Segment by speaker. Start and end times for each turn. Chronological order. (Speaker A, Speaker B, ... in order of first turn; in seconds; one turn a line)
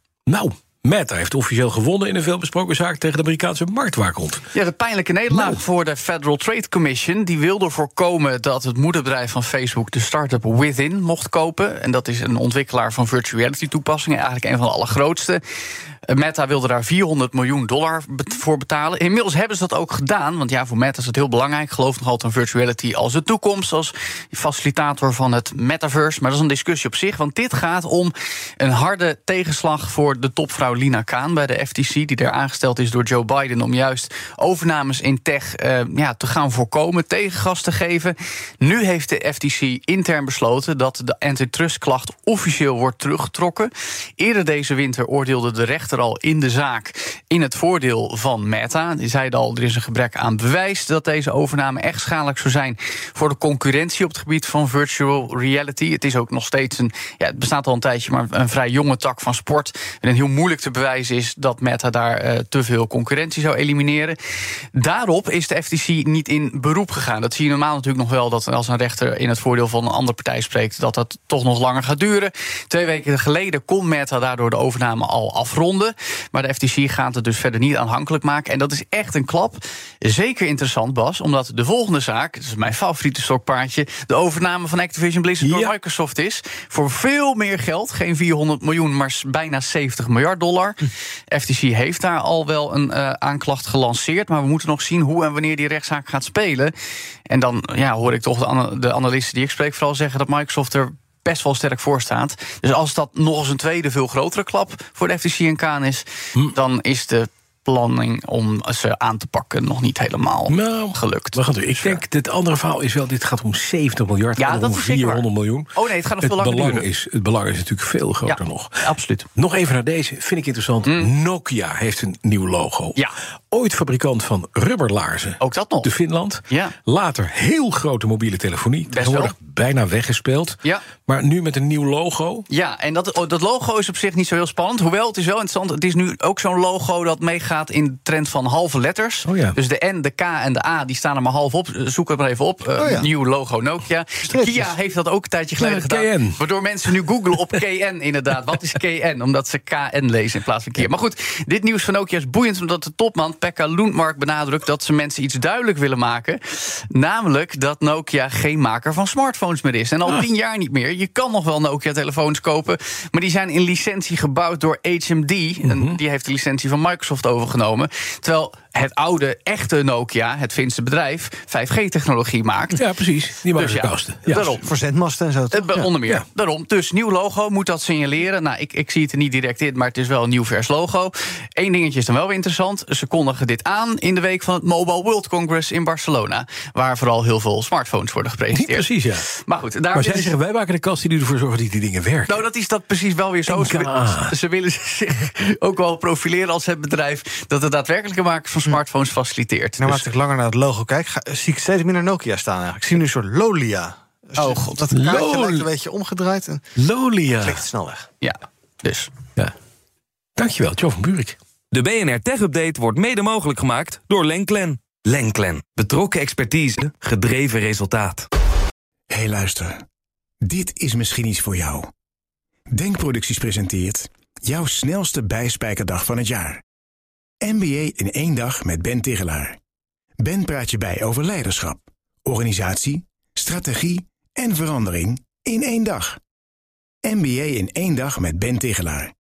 Speaker A: 0.3-4.4
Speaker B: 4.5-15.4
Speaker A: 5.3-5.6
Speaker B: 16.1-64.2
Speaker B: 64.7-96.7
Speaker B: 97.3-112.0
Speaker A: 110.5-118.8
Speaker B: 114.4-116.9
Speaker B: 118.3-119.3
Speaker A: 119.3-132.5
Speaker B: 120.9-121.1
Speaker B: 125.4-125.9
Speaker B: 126.5-126.8
Speaker B: 128.9-129.3
Speaker B: 132.5-172.8
Speaker A: 139.3-139.6
Speaker C: 142.8-143.1
Speaker C: 144.3-144.7
Speaker A: 145.6-146.4
Speaker A: 165.6-166.0
Speaker A: 172.7-174.6
Speaker B: 173.5-174.7
Speaker C: 174.6-175.9
Speaker B: 175.5-190.3
Speaker A: 188.5-189.2
Speaker A: 189.9-192.4
Speaker B: 192.3-200.1
Speaker A: 193.5-194.3
Speaker C: 199.8-206.6
Speaker B: 204.4-204.9
Speaker A: 204.9-205.7
Speaker A: 206.8-207.6
Speaker C: 207.4-208.1
Speaker B: 208.2-209.1
Speaker A: 210.4-211.4
Speaker D: 211.7-218.3
Speaker E: 219.1-219.8
Speaker E: 220.4-221.9
Speaker E: 222.7-226.6
Speaker E: 227.4-229.6
Speaker E: 230.2-236.2
Speaker E: 237.0-239.1